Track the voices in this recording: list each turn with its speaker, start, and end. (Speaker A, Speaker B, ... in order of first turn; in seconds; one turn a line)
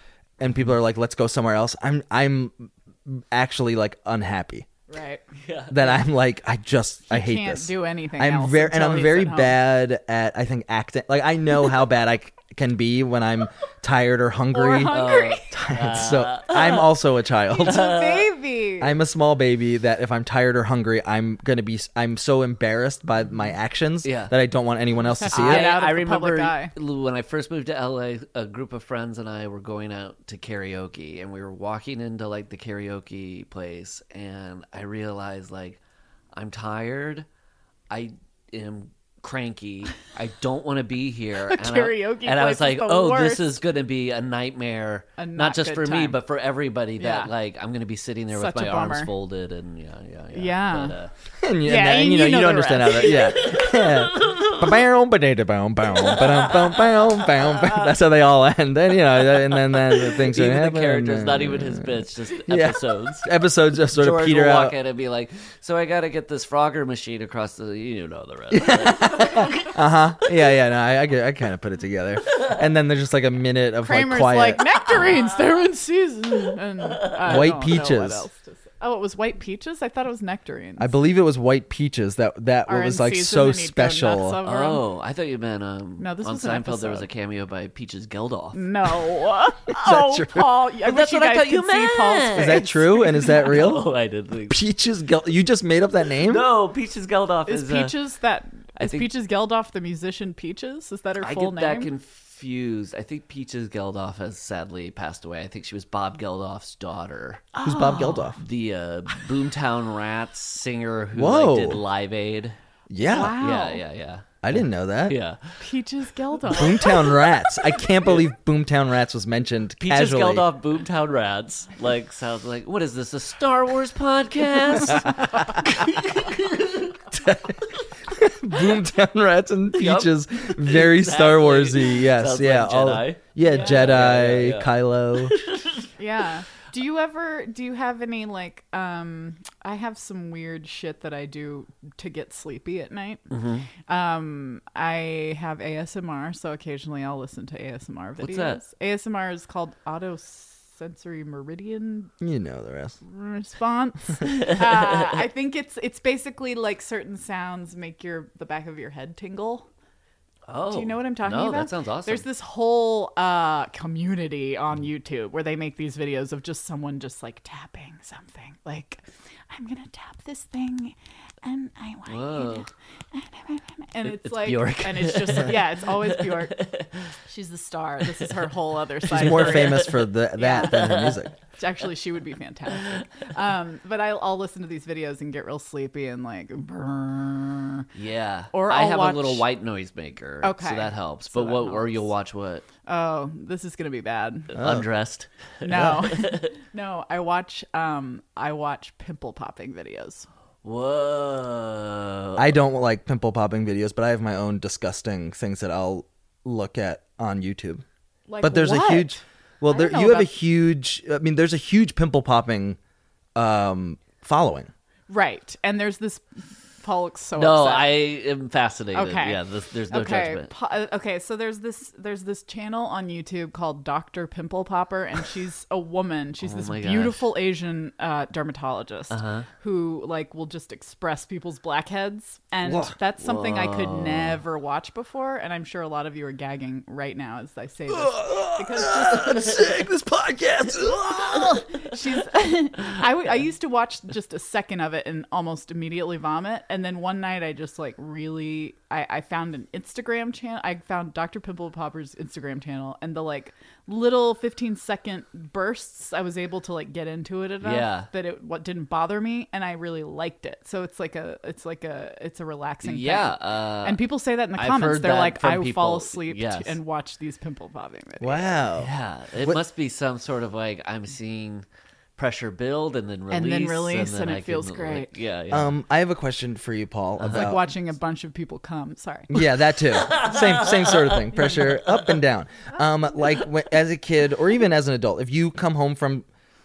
Speaker A: 0.4-4.7
Speaker B: 4.9-5.2
Speaker C: 5.4-6.0
Speaker A: 5.7-17.8
Speaker B: 7.1-9.6
Speaker B: 14.5-15.5
Speaker C: 14.9-16.9
Speaker B: 17.5-19.0
Speaker C: 17.7-18.3
Speaker A: 18.8-25.7
Speaker C: 24.0-24.3
Speaker B: 25.0-26.7
Speaker C: 25.3-35.8
Speaker C: 36.4-37.3
Speaker C: 37.9-51.1
Speaker B: 41.5-43.6
Speaker B: 45.2-46.2
Speaker B: 47.0-47.3
Speaker B: 48.3-49.1
Speaker B: 50.3-51.0
Speaker A: 51.4-64.8
Speaker B: 51.6-53.4
Speaker C: 53.1-54.8
Speaker C: 55.9-57.8
Speaker C: 59.2-63.3
Speaker C: 63.9-69.8
Speaker A: 68.5-74.6
Speaker B: 73.8-80.9
Speaker C: 75.0-75.2
Speaker C: 77.0-77.5
Speaker A: 77.3-78.2
Speaker A: 80.8-84.4
Speaker B: 82.7-84.8
Speaker C: 84.5-89.0
Speaker B: 86.0-87.1
Speaker B: 88.5-93.7
Speaker A: 89.7-90.5
Speaker C: 90.8-94.6
Speaker A: 92.3-93.9
Speaker A: 94.5-96.5
Speaker C: 96.2-97.9
Speaker B: 97.5-101.9
Speaker C: 98.8-99.1
Speaker C: 101.2-107.5
Speaker B: 107.5-108.3
Speaker A: 107.6-108.4
Speaker C: 108.4-112.6
Speaker A: 111.1-111.8
Speaker A: 112.9-113.4
Speaker B: 113.0-113.8
Speaker C: 113.4-115.6
Speaker A: 114.4-115.2
Speaker B: 115.6-117.1
Speaker A: 116.5-120.5
Speaker C: 119.8-127.0
Speaker A: 124.8-125.7
Speaker A: 127.1-135.4
Speaker C: 129.8-135.8
Speaker B: 133.4-133.8
Speaker B: 136.0-143.3
Speaker C: 143.3-143.7
Speaker B: 143.8-152.1
Speaker C: 148.2-148.6
Speaker A: 152.2-153.0
Speaker B: 153.0-159.7
Speaker C: 160.5-162.2
Speaker B: 160.7-176.5
Speaker C: 172.1-172.7
Speaker C: 174.1-177.1
Speaker B: 177.3-181.0
Speaker C: 179.1-180.1
Speaker A: 179.1-181.3
Speaker C: 180.6-181.2
Speaker B: 181.6-187.9
Speaker C: 182.7-183.0
Speaker C: 187.9-192.7
Speaker B: 188.5-189.5
Speaker B: 190.4-192.1
Speaker B: 192.9-194.6
Speaker C: 194.5-196.5
Speaker A: 194.6-194.8
Speaker B: 195.6-200.3
Speaker C: 200.6-202.5
Speaker A: 202.4-207.8
Speaker B: 208.3-210.3
Speaker A: 208.4-212.8
Speaker A: 213.3-214.7
Speaker B: 215.1-216.2
Speaker B: 216.8-218.0
Speaker C: 217.4-220.5
Speaker B: 218.9-219.4
Speaker B: 219.9-239.6
Speaker C: 226.4-227.3
Speaker C: 229.1-229.5
Speaker A: 232.7-232.9
Speaker C: 233.2-234.4
Speaker A: 237.9-241.6
Speaker B: 241.1-268.5
Speaker C: 257.6-258.1
Speaker C: 262.8-264.0
Speaker C: 264.6-266.8
Speaker A: 268.2-269.6
Speaker C: 268.8-271.6
Speaker C: 272.2-275.7
Speaker B: 273.3-275.1
Speaker A: 275.5-277.6
Speaker C: 277.2-277.6
Speaker B: 277.3-279.4
Speaker A: 279.3-286.3
Speaker C: 279.9-282.1